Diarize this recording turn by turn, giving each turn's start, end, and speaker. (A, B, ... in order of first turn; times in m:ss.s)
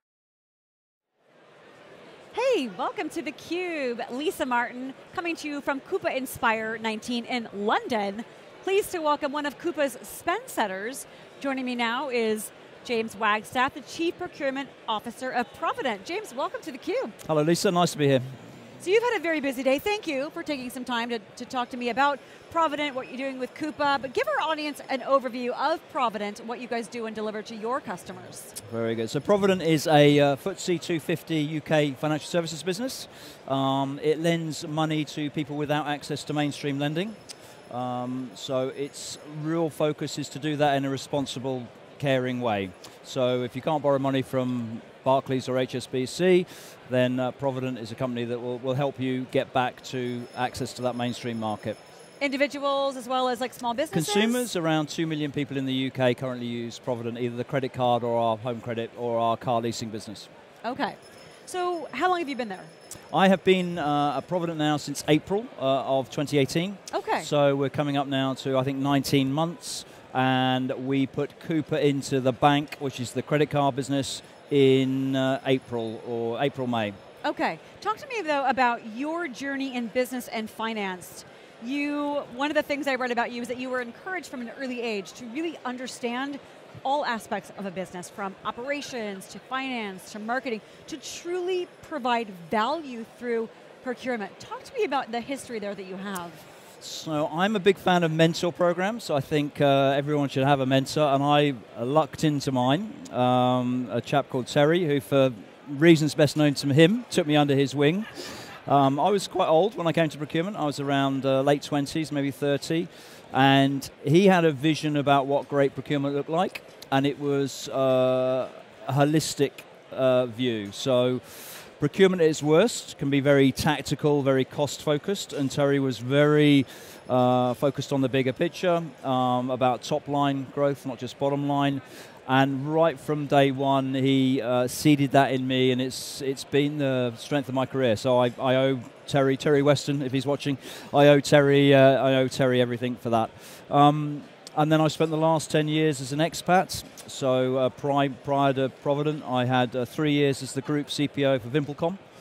0:02.3-0:17.2 A
0:17.2-0:18.2 B
0:18.8-0:28.6 A
0:28.6-0:37.2 B
0:37.7-0:51.8 B
0:52.2-0:54.5 A
0:53.9-1:00.3 B
1:00.6-1:02.7 A
1:03.1-1:17.0 B
1:06.9-1:07.3 A
1:17.2-1:36.5 A
1:36.8-2:32.0 B